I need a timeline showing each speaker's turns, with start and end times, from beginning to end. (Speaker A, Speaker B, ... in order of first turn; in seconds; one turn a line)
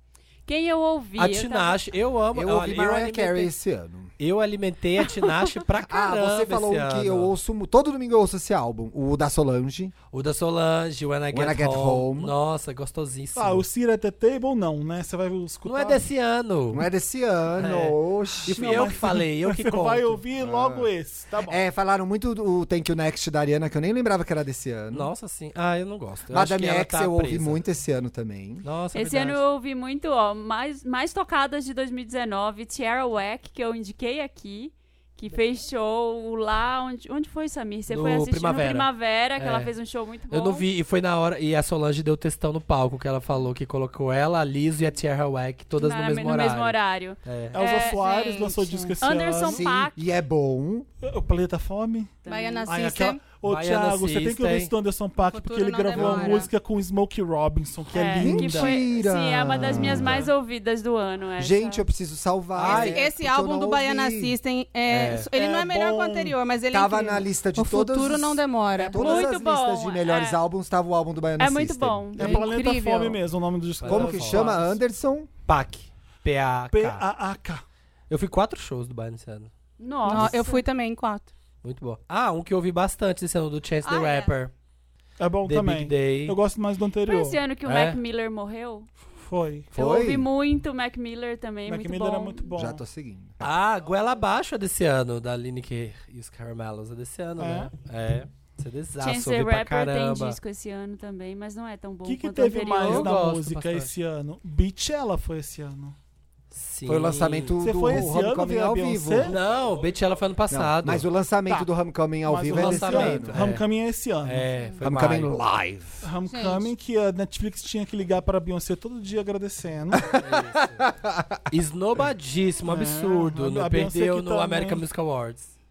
Speaker A: 0.5-1.8
Speaker B: 1.2-3.5
Speaker C: 2.3-4.1
Speaker B: 4.2-7.3
Speaker C: 5.8-9.9
Speaker B: 10.1-13.7
Speaker C: 11.3-12.3
Speaker D: 13.3-16.0
Speaker B: 15.6-16.9
Speaker C: 16.7-18.9
Speaker B: 17.5-20.2
Speaker D: 18.4-21.6
Speaker C: 20.4-20.9
Speaker C: 21.4-25.1
Speaker B: 24.9-27.6
Speaker C: 26.3-28.6
Speaker B: 28.6-29.4
Speaker A: 28.9-40.6
Speaker B: 37.9-39.7
Speaker B: 40.3-47.6
Speaker A: 45.8-48.0
Speaker D: 47.5-49.7
Speaker E: 47.6-49.0
Speaker A: 49.0-50.0
Speaker C: 49.4-50.9
Speaker D: 51.0-58.8
Speaker A: 52.2-52.7
Speaker E: 52.2-53.2
Speaker B: 53.4-54.7
Speaker E: 55.2-56.5
Speaker A: 57.9-61.8
Speaker C: 58.2-60.3
Speaker D: 59.9-60.2
Speaker C: 61.4-64.3
Speaker B: 62.5-63.0
Speaker E: 62.6-69.3
Speaker B: 64.9-65.3
Speaker D: 65.3-66.4
Speaker C: 66.7-72.1
Speaker A: 68.9-70.4
Speaker A: 71.4-72.5
Speaker D: 72.2-74.8
Speaker E: 72.2-73.2
Speaker B: 73.8-74.6
Speaker C: 73.8-75.3
Speaker B: 75.5-77.0
Speaker D: 76.7-77.6
Speaker B: 78.1-79.5
Speaker A: 79.8-80.6
Speaker E: 80.0-81.3
Speaker B: 81.6-84.5
Speaker E: 83.8-84.3
Speaker D: 85.2-87.4
Speaker B: 85.5-86.4
Speaker A: 87.0-88.9
Speaker B: 87.6-88.0
Speaker D: 89.2-89.7
Speaker A: 89.7-92.5
Speaker C: 89.7-90.3
Speaker D: 91.7-92.8
Speaker C: 92.5-93.5
Speaker B: 93.4-100.4
Speaker D: 97.4-97.7
Speaker A: 99.0-103.2
Speaker D: 102.0-106.0
Speaker B: 102.7-103.9
Speaker B: 106.5-107.6
Speaker C: 106.9-109.4
Speaker D: 107.6-109.3
Speaker B: 109.2-111.0
Speaker C: 110.5-113.4
Speaker D: 112.2-114.5
Speaker B: 112.5-113.6
Speaker B: 114.2-115.4
Speaker C: 114.8-116.0
Speaker D: 116.0-120.1
Speaker E: 116.2-116.7
Speaker C: 119.9-121.4
Speaker B: 120.2-120.8
Speaker B: 121.5-125.5
Speaker D: 122.7-124.8